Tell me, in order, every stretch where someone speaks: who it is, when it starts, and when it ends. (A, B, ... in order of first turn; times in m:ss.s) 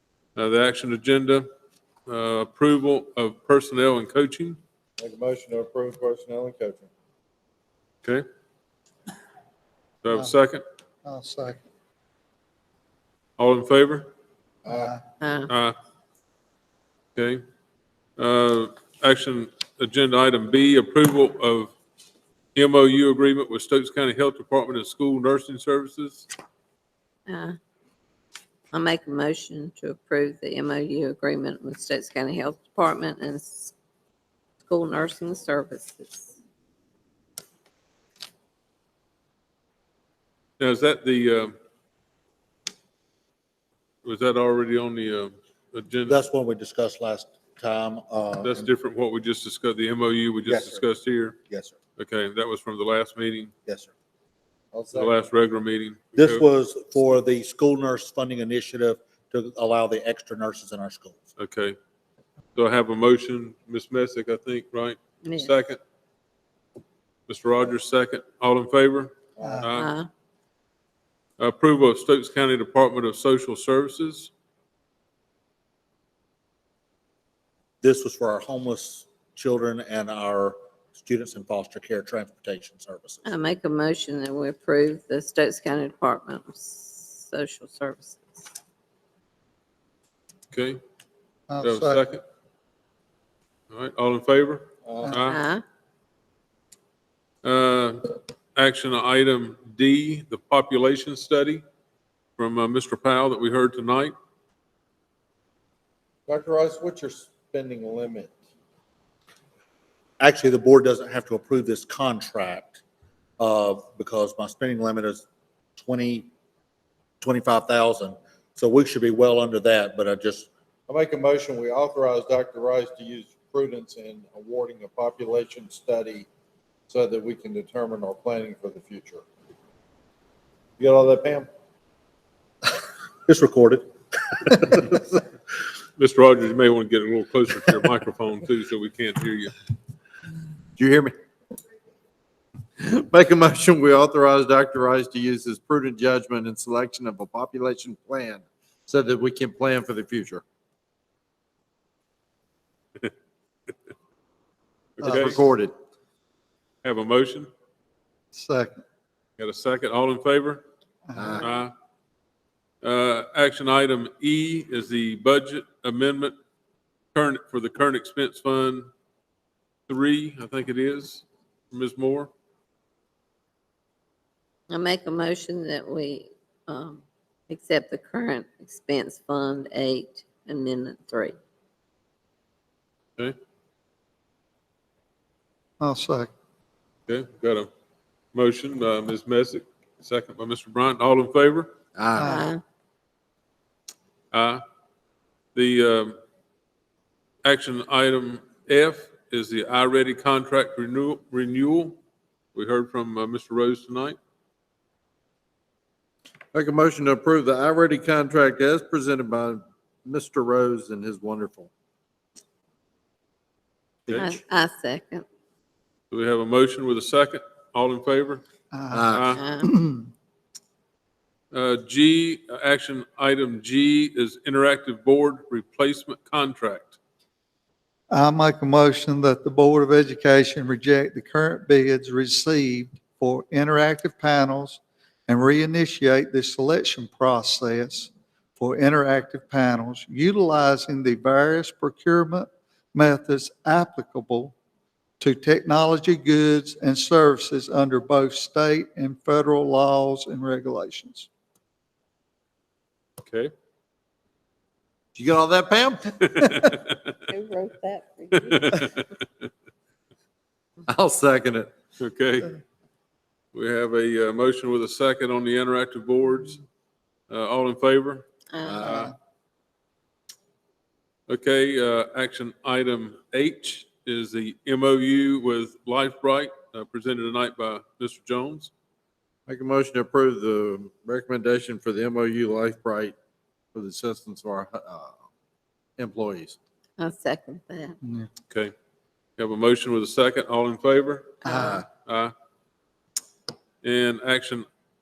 0:00.4-0:01.4 A
0:02.1-0:04.6 A
0:05.0-0:06.9 B
0:10.0-0:10.6 A
0:11.0-0:11.6 C
0:13.4-0:14.1 A
0:14.6-0:14.9 B
0:14.7-0:15.0 C
0:15.2-0:15.5 D
0:15.5-0:15.8 A
0:17.2-0:17.4 A
0:18.2-0:21.7 A
0:22.5-0:26.3 A
0:27.3-0:27.6 D
0:28.7-0:33.7 D
0:34.6-0:36.4 D
0:40.6-0:41.5 A
0:44.0-0:46.2 A
0:46.1-0:48.7 E
0:48.4-0:51.4 A
0:50.5-0:50.8 E
0:51.5-0:51.7 E
0:52.0-0:53.5 A
0:53.7-0:53.9 E
0:54.7-0:55.2 B
0:54.9-0:56.4 A
0:56.2-1:01.2 E
1:01.4-1:01.8 A
1:02.5-1:05.8 A
1:05.2-1:05.5 D
1:07.3-1:09.9 A
1:09.4-1:09.7 C
1:09.7-1:10.1 D
1:11.4-1:14.3 A
1:17.8-1:23.2 E
1:23.2-1:28.4 D
1:30.5-1:30.8 A
1:31.5-1:32.0 C
1:31.6-1:32.2 A
1:33.7-1:35.4 A
1:34.8-1:35.2 B
1:35.2-1:35.6 D
1:37.4-1:41.6 A
1:42.4-1:44.1 A
1:46.3-1:48.3 B
1:50.2-1:52.8 E
1:53.4-1:55.2 E
1:55.8-1:56.3 E
1:57.2-2:00.5 E
2:00.9-2:06.3 B
2:06.9-2:09.2 B
2:10.8-2:11.5 B
2:13.2-2:15.0 E
2:16.0-2:19.5 A
2:20.8-2:21.1 B
2:22.8-2:30.4 B
2:35.0-2:35.4 A
2:35.0-2:35.4 C
2:35.2-2:35.7 B
2:36.8-2:37.5 A
2:38.3-2:38.8 C
2:39.4-2:40.6 A
2:41.1-2:41.4 C
2:41.2-2:41.4 B
2:41.4-2:41.7 A
2:42.8-2:46.3 A
2:47.1-2:48.9 A
2:49.9-2:52.3 A
2:54.7-3:01.4 D
3:05.8-3:06.3 C
3:07.1-3:07.7 A
3:08.3-3:11.7 A
3:12.0-3:12.5 B
3:12.2-3:12.5 C
3:12.2-3:12.6 D
3:14.3-3:14.6 A
3:15.5-3:16.2 A
3:17.4-3:22.0 A
3:22.5-3:24.2 A
3:26.5-3:31.7 B
3:34.1-3:34.4 B
3:34.2-3:35.2 D
3:36.1-3:38.4 A
3:38.7-3:40.1 C
3:38.9-3:39.3 B
3:39.1-3:39.4 A
3:39.4-3:39.7 D
3:41.5-3:47.0 A
3:48.1-4:04.5 C
4:05.2-4:11.3 C
4:13.2-4:13.5 A
4:15.1-4:16.4 B
4:16.2-4:17.0 A
4:17.3-4:18.8 D
4:18.5-4:19.1 A
4:20.9-4:21.7 B
4:22.0-4:22.5 A
4:23.5-4:26.6 A
4:27.3-4:28.2 A
4:28.5-4:28.9 D
4:28.6-4:29.1 B
4:28.8-4:29.1 A
4:31.3-4:38.7 A
4:39.5-4:43.1 B
4:43.7-4:45.2 B
4:46.0-4:46.6 B
4:47.0-4:48.0 D
4:48.0-4:48.3 C
4:49.4-4:52.3 A
4:51.4-4:51.8 C
4:51.5-4:51.8 B
4:53.8-4:54.6 A